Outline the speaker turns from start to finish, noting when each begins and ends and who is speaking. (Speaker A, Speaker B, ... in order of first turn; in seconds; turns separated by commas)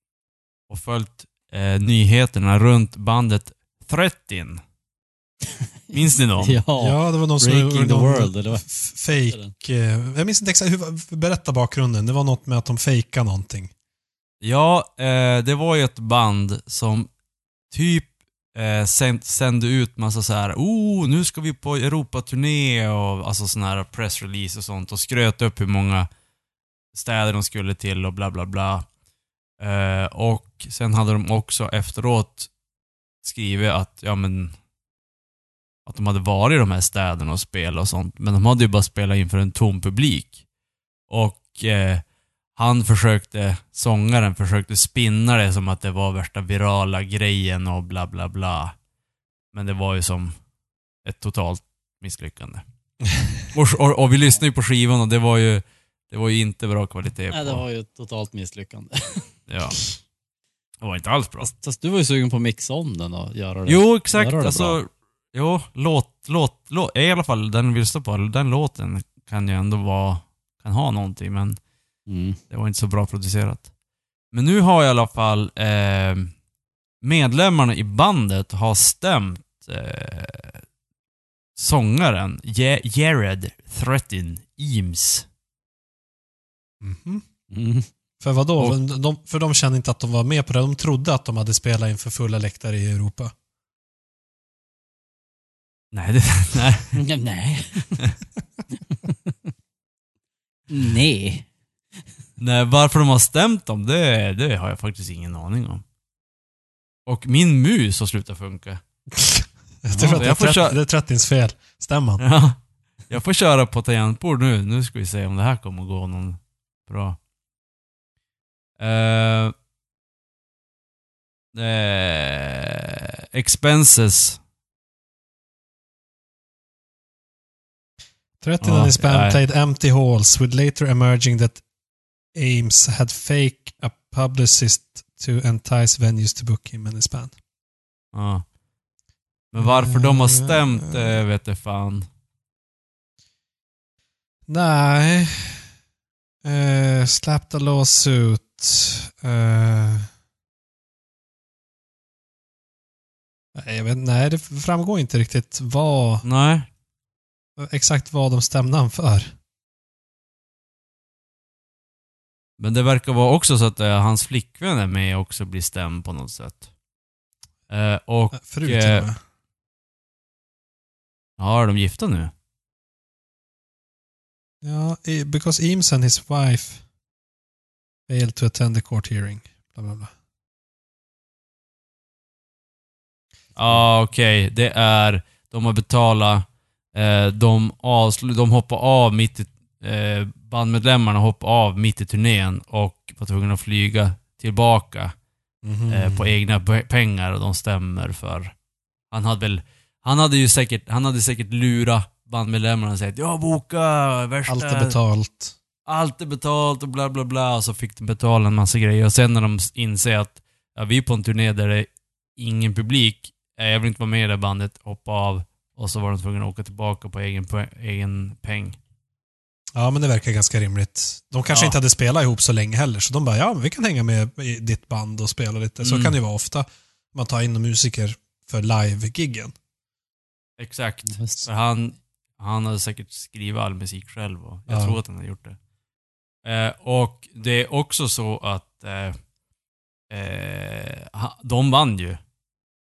Speaker A: 0.7-4.6, Speaker B: 5.9-8.7, Speaker A: 5.9-6.6, Speaker C: 6.8-13.7, Speaker A: 14.4-17.1, Speaker A: 17.7-26.1, Speaker A: 26.9-28.9, Speaker A: 29.6-32.5, Speaker A: 33.2-34.6, Speaker A: 35.9-40.4, Speaker A: 41.1-42.0, Speaker A: 42.6-48.7, Speaker A: 49.5-50.4, Speaker A: 51.0-52.6, Speaker A: 53.5-57.6, Speaker B: 57.3-59.3, Speaker A: 59.5-59.8, Speaker A: 60.8-61.5, Speaker B: 61.4-64.8, Speaker A: 63.7-71.6, Speaker B: 72.1-72.4, Speaker A: 72.5-73.7, Speaker A: 74.3-76.3, Speaker A: 77.0-80.6, Speaker A: 81.6-85.3, Speaker C: 86.8-87.2, Speaker B: 87.5-87.9, Speaker C: 88.2-93.3, Speaker A: 95.9-96.9, Speaker B: 96.9-98.0, Speaker B: 98.9-99.3, Speaker B: 100.7-101.5, Speaker A: 102.4-105.8, Speaker A: 107.1-108.8, Speaker C: 109.2-112.2, Speaker B: 109.9-110.2, Speaker A: 110.0-110.8, Speaker A: 112.2-112.6, Speaker A: 113.1-117.2, Speaker A: 118.8-119.5, Speaker A: 121.5-124.4, Speaker C: 128.4-131.6, Speaker A: 128.6-129.4, Speaker C: 132.3-137.3, Speaker A: 138.1-138.4, Speaker A: 139.5-142.1, Speaker C: 139.6-141.2, Speaker C: 144.5-145.7, Speaker C: 146.4-150.1, Speaker C: 153.6-156.2, Speaker A: 156.2-156.7, Speaker C: 157.6-159.3, Speaker A: 162.6-166.6, Speaker A: 167.7-169.1, Speaker C: 168.4-169.2, Speaker A: 171.4-172.3, Speaker C: 174.6-176.8, Speaker C: 178.1-180.1, Speaker A: 183.6-195.1, Speaker C: 195.6-196.3, Speaker A: 195.9-198.5, Speaker A: 199.1-205.0, Speaker C: 204.5-205.6, Speaker A: 205.9-218.8, Speaker C: 219.8-229.6, Speaker A: 221.5-221.8, Speaker A: 225.8-226.2, Speaker A: 230.6-235.6, Speaker B: 231.1-231.4, Speaker C: 234.7-235.0, Speaker A: 236.4-239.2, Speaker A: 240.1-242.2